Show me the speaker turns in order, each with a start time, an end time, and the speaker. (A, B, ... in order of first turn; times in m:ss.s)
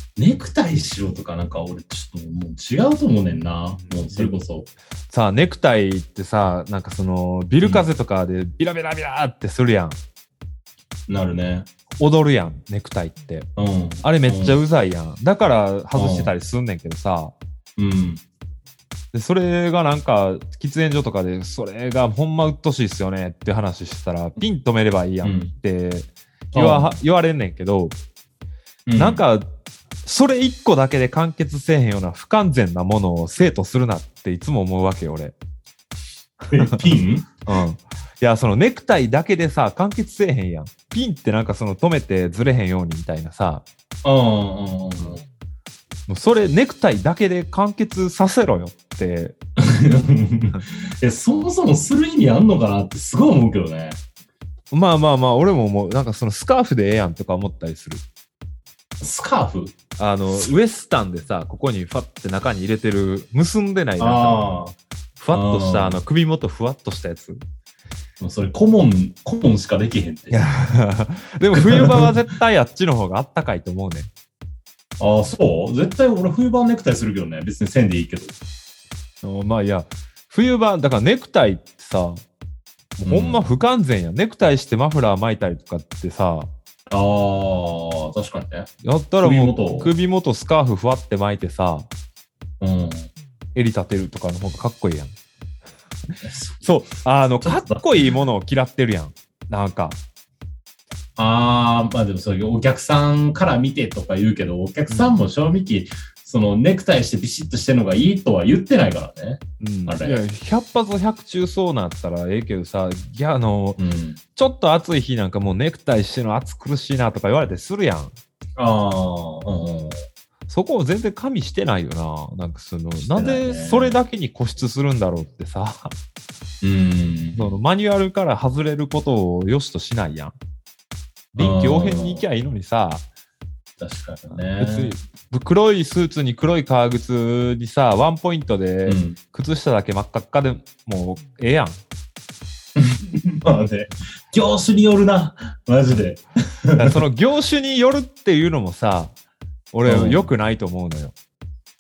0:00.2-0:04.7 A
0:03.8-0:04.4 B
0:05.1-0:10.0 B
0:11.1-0:11.7 A
0:12.0-0:13.5 B
0:13.6-0:14.6 A
0:14.0-0:17.3 B
0:16.0-0:16.3 A
0:17.8-0:18.2 A
0:19.1-0:28.0 B
0:25.2-0:25.5 A
0:26.5-0:27.0 A
0:28.9-0:29.2 A
0:29.0-0:29.4 B
0:30.0-0:35.4 B
0:36.5-0:37.3 A
0:36.6-0:36.8 B
0:37.4-0:43.6 B
0:44.0-0:45.2 A
0:46.1-0:49.4 B
0:49.6-0:54.0 A
0:54.7-0:58.0 B
0:59.0-0:59.8 A
1:00.0-1:04.4 B
1:04.0-1:04.8 A
1:05.2-1:07.4 B
1:05.3-1:06.0 A
1:08.2-1:10.5 A
1:10.3-1:14.1 B
1:11.5-1:12.1 A
1:15.0-1:18.4 A
1:19.2-1:22.2 B
1:23.0-1:26.5 B
1:23.1-1:23.4 A
1:26.9-1:28.7 A
1:28.8-1:31.9 B
1:29.2-1:29.9 A
1:32.6-1:33.1 A
1:33.6-1:35.1 B
1:36.2-1:36.6 A
1:36.6-1:40.0 B
1:37.4-1:37.8 A
1:41.2-1:50.2 A
1:44.9-1:45.2 B
1:49.6-1:53.8 B
1:53.8-1:54.2 A
1:54.4-1:58.1 B
1:58.6-2:00.1 A
2:00.5-2:05.9 B
2:03.0-2:04.0 A
2:06.6-2:07.6 A
2:07.4-2:10.3 B
2:11.3-2:13.0 B
2:11.4-2:12.2 A
2:13.8-2:14.9 A
2:14.6-2:21.8 B
2:18.9-2:19.2 A
2:22.8-2:27.0 A
2:26.8-2:29.1 B
2:29.7-2:31.1 B
2:29.9-2:30.3 A